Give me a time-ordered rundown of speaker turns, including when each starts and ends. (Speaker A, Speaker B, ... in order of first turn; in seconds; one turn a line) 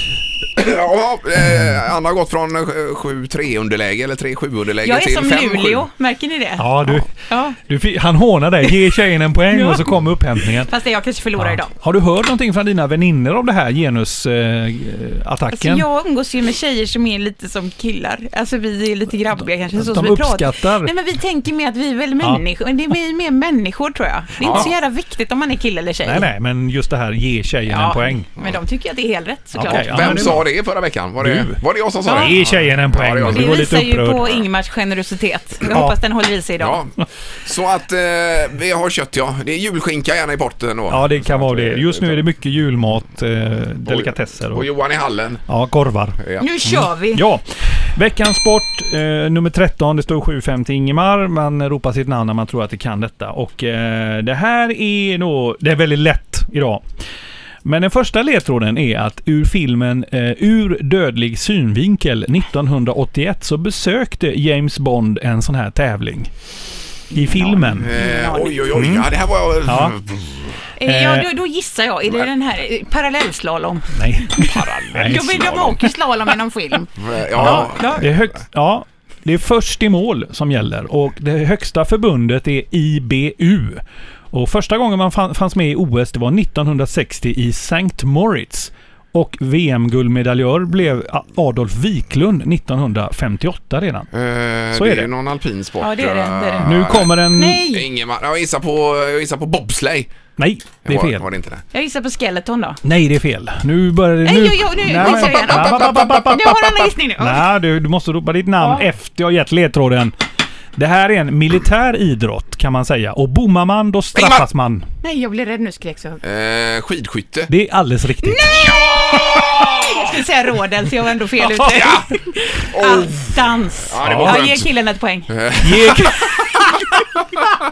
Speaker A: 0.6-5.8
Speaker B: 4.8-7.6
Speaker C: 6.6-10.7
Speaker B: 9.5-9.9
Speaker B: 10.4-11.7
Speaker C: 11.4-15.8
Speaker B: 15.5-26.3
Speaker C: 19.7-20.9
Speaker A: 24.4-24.7
Speaker C: 24.4-24.7
Speaker C: 26.0-28.3
Speaker B: 27.7-30.3
Speaker C: 29.5-30.4
Speaker A: 29.6-33.6
Speaker C: 31.2-34.4
Speaker B: 32.0-32.3
Speaker B: 33.2-36.8
Speaker C: 35.7-35.9
Speaker A: 36.6-42.2
Speaker C: 40.9-44.7
Speaker A: 43.9-45.4
Speaker C: 45.5-56.8
Speaker A: 46.2-46.5
Speaker B: 46.4-47.2
Speaker C: 57.6-66.3
Speaker B: 67.1-68.6
Speaker C: 67.1-67.9
Speaker A: 67.8-70.5
Speaker C: 68.7-69.1
Speaker C: 69.6-69.9
Speaker B: 70.8-73.9
Speaker C: 70.8-71.3
Speaker C: 73.9-75.7
Speaker A: 74.4-75.8
Speaker B: 74.9-78.0
Speaker A: 77.0-78.2
Speaker C: 77.3-94.1
Speaker A: 94.1-97.1
Speaker C: 94.7-95.1
Speaker B: 95.8-97.9
Speaker C: 96.6-97.6
Speaker A: 97.7-100.1
Speaker C: 100.4-101.2
Speaker A: 100.8-101.6
Speaker B: 101.7-102.8
Speaker C: 102.8-106.5
Speaker B: 104.2-107.4
Speaker A: 105.0-106.9
Speaker C: 107.2-110.1
Speaker C: 110.8-114.9
Speaker A: 114.1-114.5
Speaker B: 115.0-116.2
Speaker A: 116.2-117.5
Speaker C: 117.5-118.4
Speaker B: 118.2-126.7
Speaker A: 118.4-120.2
Speaker A: 121.6-122.1
Speaker A: 122.7-124.7
Speaker C: 124.0-124.4
Speaker A: 125.3-126.1
Speaker C: 125.6-126.7